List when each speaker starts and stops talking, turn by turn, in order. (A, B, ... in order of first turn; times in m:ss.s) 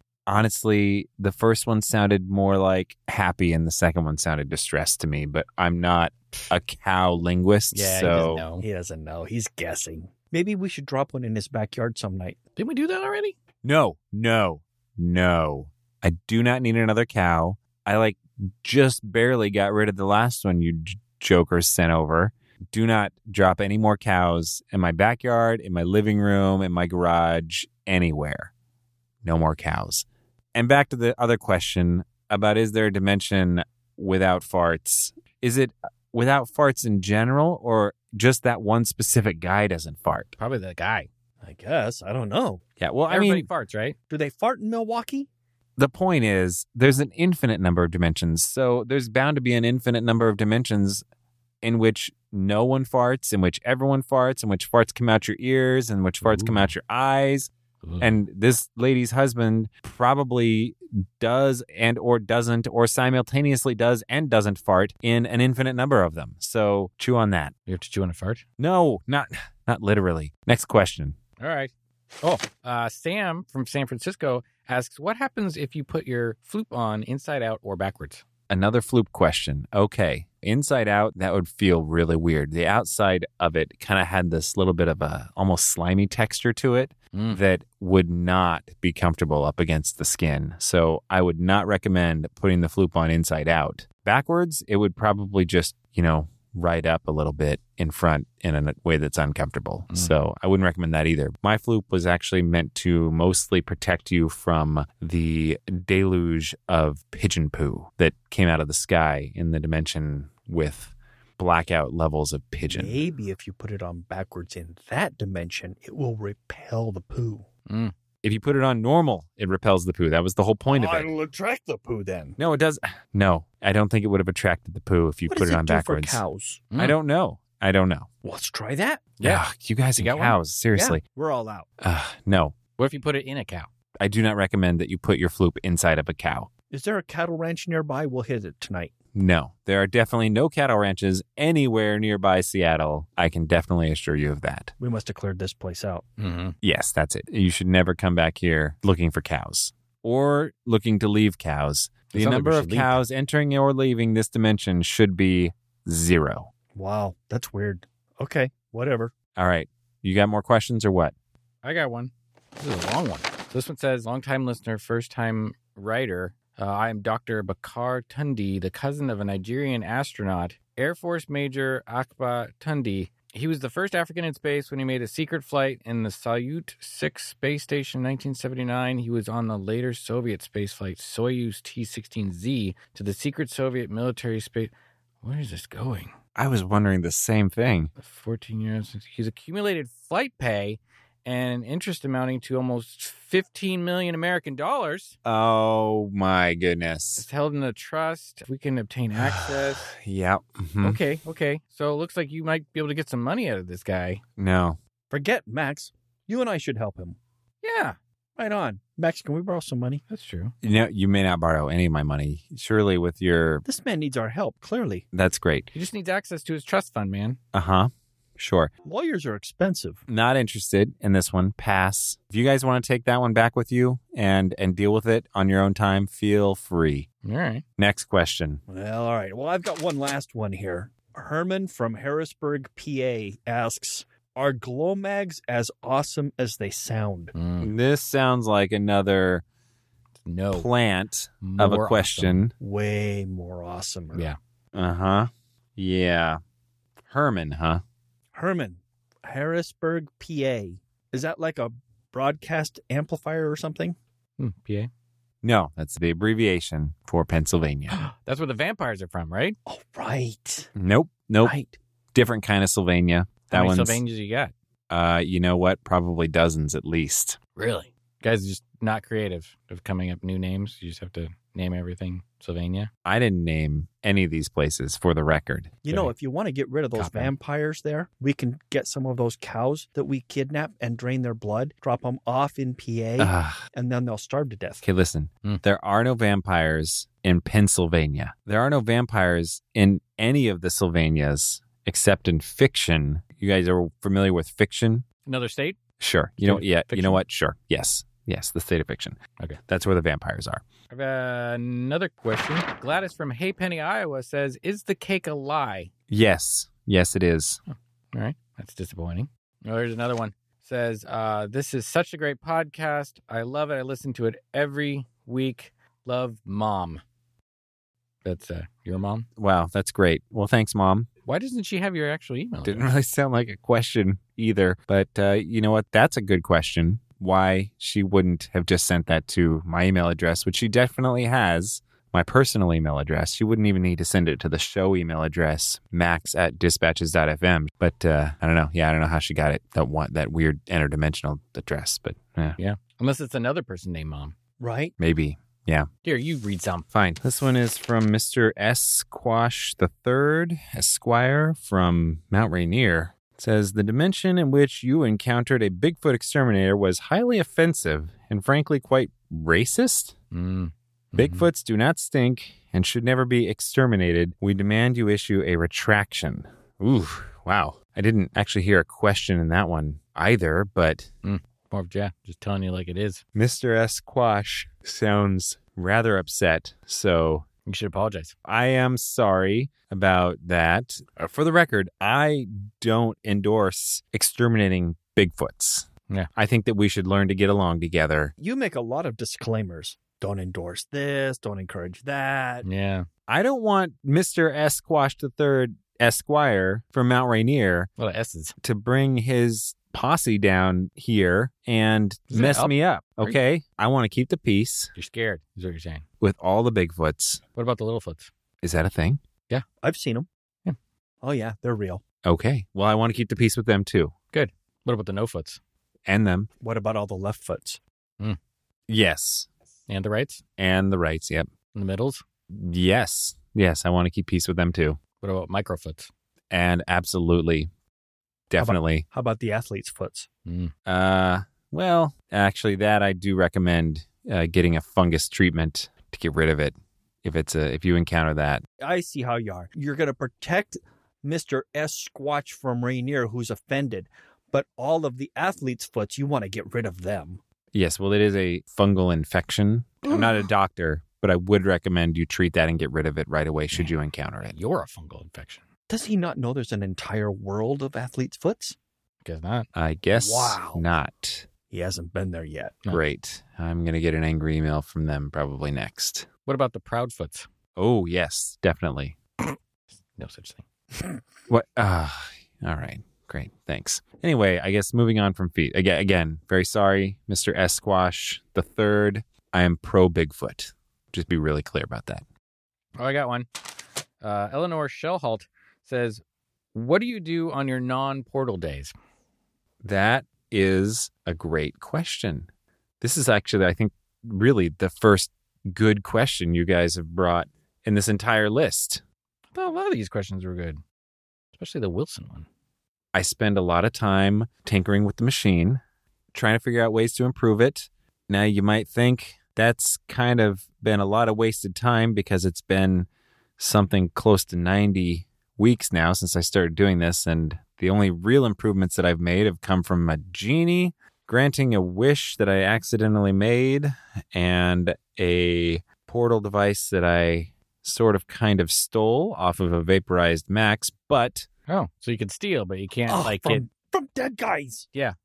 0:00.3-0:08.4 A
0:07.7-0:08.6 B
0:08.6-0:12.4 C
0:12.6-0:13.4 B
0:13.6-0:28.5 A
0:29.2-0:40.4 A
0:40.4-0:41.1 B
0:41.4-0:42.6 C
0:42.8-0:43.5 A
0:43.1-0:43.9 B
0:44.1-0:45.3 C
0:45.8-0:51.0 A
0:51.6-1:07.5 A
0:56.2-0:56.7 B
0:57.8-0:58.1 B
1:07.7-1:08.4 B
1:08.6-1:11.2 A
1:11.4-1:18.2 B
1:18.5-1:53.0 A
1:27.1-1:27.4 B
1:39.9-1:40.1 B
1:52.7-1:57.4 C
1:57.7-1:57.9 B
1:58.2-2:01.1 A
2:00.7-2:02.4 C
2:02.4-2:06.2 A
2:05.3-2:06.7 C
2:06.7-2:07.0 B
2:06.8-2:08.1 A
2:08.2-2:09.1 C
2:09.2-2:09.4 B
2:09.2-2:11.0 A
2:10.0-2:10.4 B
2:10.7-2:11.7 C
2:11.8-2:12.5 A
2:12.8-2:13.7 B
2:14.0-2:16.5 A
2:16.7-2:18.9 C
2:19.1-2:24.7 A
2:24.8-2:26.0 C
2:26.2-2:26.5 B
2:26.6-2:36.5 A
2:32.1-2:33.0 B
2:36.7-2:39.1 C
2:39.4-2:41.1 A
2:41.6-3:06.1 B
3:06.4-3:07.9 A
3:08.0-3:15.1 B
3:15.2-3:17.2 A
3:17.2-3:19.9 B
3:19.2-3:21.0 A
3:20.8-3:24.2 B
3:24.4-3:24.8 A
3:25.1-3:27.2 C
3:27.6-3:28.0 B
3:28.4-3:30.0 C
3:30.1-3:30.5 B
3:30.6-3:33.6 A
3:33.6-3:35.0 C
3:35.1-3:35.7 A
3:35.7-3:37.4 B
3:37.5-3:38.7 A
3:38.8-3:40.0 C
3:40.1-3:47.1 A
3:47.2-3:47.6 B
3:47.8-3:48.6 A
3:48.7-3:57.3 C
3:57.3-3:57.7 B
3:57.6-3:59.4 A
4:00.2-4:00.7 B
4:00.5-4:02.5 A
4:01.4-4:02.4 B
4:02.6-4:04.3 C
4:04.7-4:06.4 A
4:07.0-4:07.8 A
4:08.3-4:14.0 C
4:14.4-4:14.9 B
4:15.4-4:18.0 A
4:17.9-4:19.6 B
4:19.7-4:20.7 C
4:20.8-4:21.5 A
4:21.4-4:21.7 C
4:22.1-4:24.0 A
4:23.5-4:24.5 B
4:24.9-4:27.4 A
4:27.6-4:32.9 B
4:33.0-4:35.8 A
4:35.8-4:44.8 C
4:36.9-4:37.3 B
4:43.2-4:43.6 A
4:44.8-4:55.0 A
4:55.2-4:55.8 B
4:56.0-5:00.6 A
4:56.4-4:57.2 B
5:00.9-5:05.9 B
5:06.1-5:07.6 A
5:07.7-5:17.0 B
5:18.2-5:19.3 B
5:19.4-5:21.1 A
5:21.2-5:22.9 B
5:22.6-5:42.6 A
5:42.6-5:44.3 B
5:44.6-5:44.9 C
5:45.0-5:45.9 A
5:46.0-5:46.8 B
5:46.9-6:00.2 A
6:00.3-6:01.5 B
6:01.2-6:11.1 A
6:11.2-6:13.2 B
6:13.3-6:17.4 A
6:17.6-6:18.3 B
6:18.4-6:28.3 A
6:28.4-6:32.6 C
6:32.6-6:33.0 B
6:33.3-6:37.9 A
6:38.0-6:38.5 B
6:38.6-6:44.9 A
6:42.3-6:43.4 B
6:44.9-6:46.0 B
6:46.2-6:47.4 A
6:47.5-6:48.3 B
6:48.6-6:49.2 A
6:49.8-6:50.3 C
6:51.2-6:52.0 C
6:52.2-6:54.1 A
6:54.3-6:55.6 B
6:56.1-6:56.5 A
6:56.6-6:57.8 C
6:58.9-6:59.5 A
6:59.9-7:00.4 B
7:00.6-7:01.5 A
7:01.7-7:02.2 B
7:02.5-7:05.0 A
7:05.2-7:06.1 B
7:06.5-7:07.7 A
7:08.5-7:09.0 A
7:08.6-7:10.3 C
7:10.4-7:10.7 B
7:10.9-7:18.6 A
7:18.8-7:27.4 C
7:27.7-7:34.5 A
7:34.5-7:35.6 B
7:35.9-7:38.8 C
7:39.2-7:39.7 B
7:39.7-7:41.4 A
7:40.1-7:40.8 C
7:41.7-7:42.8 C
7:42.9-7:46.3 A
7:46.4-7:47.5 B
7:47.8-7:49.2 A
7:49.4-7:50.6 B
7:51.5-8:02.2 A
8:03.0-8:03.5 B
8:04.2-8:06.2 B
8:06.7-8:08.9 B
8:09.8-8:12.5 A
8:13.0-8:19.0 A
8:19.5-8:20.8 B
8:21.5-8:22.5 B
8:23.1-8:25.8 A
8:26.3-8:33.1 A
8:33.6-8:51.5 A
8:51.7-8:53.6 B
8:53.1-8:54.9 C